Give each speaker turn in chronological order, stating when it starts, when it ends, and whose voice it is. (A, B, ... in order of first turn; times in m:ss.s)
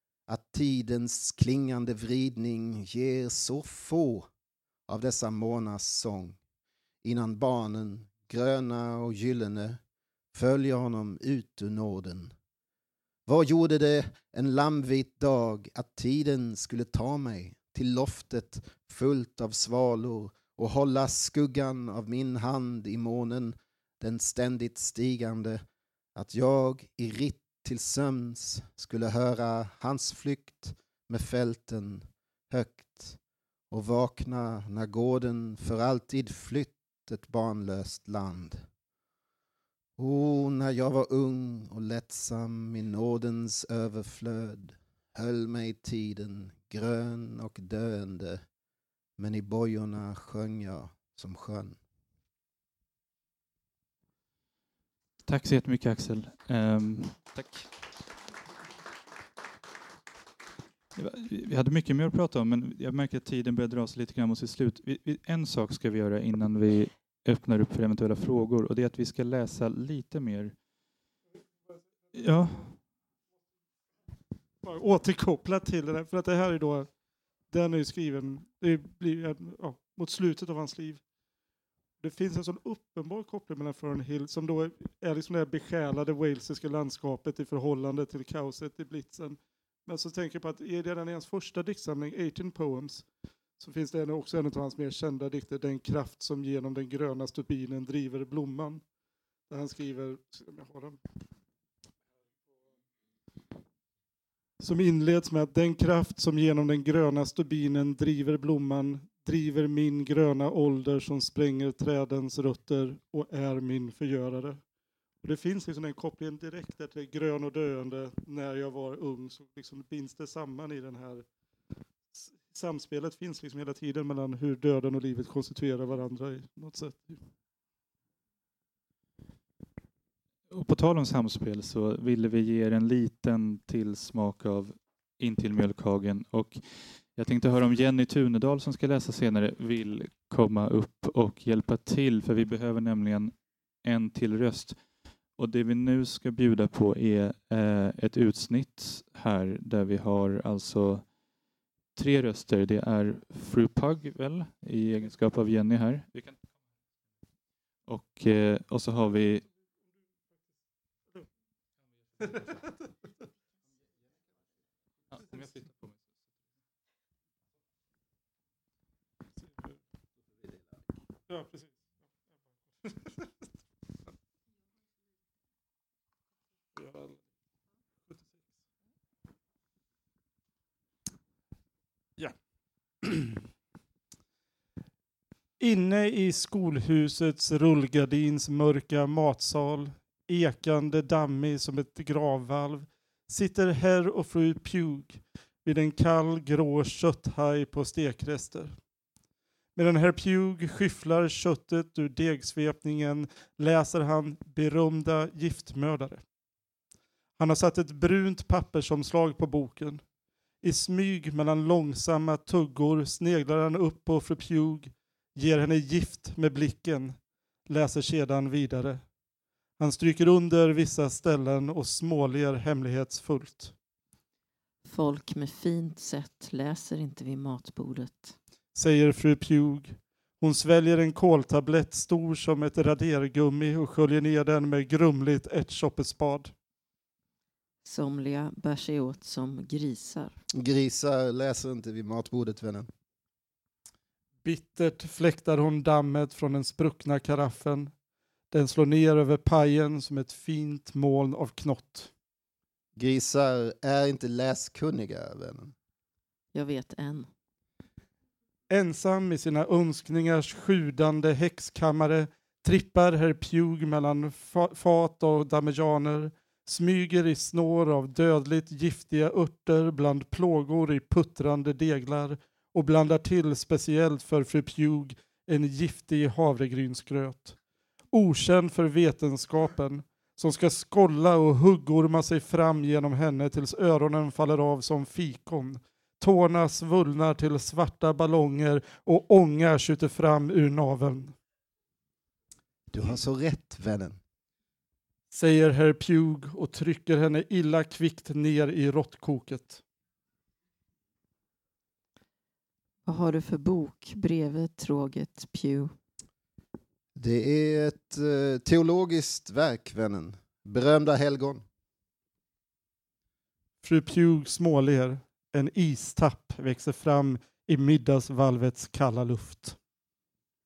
0:00.3-0:04.3 A
0:04.9-0:06.4 A
0:07.0-0:09.8 A
0:10.3-0:12.3 A
0:13.3-0:25.6 A
0:26.1-0:33.2 A
0:33.7-0:38.6 A
0:40.0-0:48.4 A
0:49.2-0:51.8 A
0:55.2-0:57.7 B
1:01.0-1:10.6 B
1:12.1-1:12.8 B
1:14.6-1:16.9 C
1:17.5-1:21.0 C
1:22.0-1:33.0 C
1:33.6-1:38.8 C
1:39.5-1:41.0 C
1:44.6-1:54.6 C
1:55.2-2:01.2 C
2:02.1-2:07.2 C
2:10.5-2:24.8 B
2:25.4-2:31.1 B
2:31.9-2:36.4 B
2:37.9-2:39.4 B
2:45.1-2:45.7 B
2:51.3-2:51.8 C
2:52.8-2:53.3 C
2:56.8-2:57.2 C
3:03.0-3:03.4 C
3:05.6-3:18.8 C
3:19.8-3:26.2 C
3:27.4-3:30.0 C
3:30.6-3:39.0 C
3:39.8-3:43.7 C
3:44.8-3:48.3 D
3:48.7-3:56.5 C
3:57.8-4:00.4 D
4:00.5-4:02.9 A
4:04.4-4:07.9 C
4:08.5-4:12.1 C
4:13.0-4:15.7 A
4:16.5-4:17.3 D
4:18.7-4:37.6 C
4:38.1-4:51.3 C
4:52.9-4:54.2 A
4:55.3-4:59.8 C
5:03.0-5:05.9 D
5:07.2-5:11.6 A
5:13.8-5:19.8 C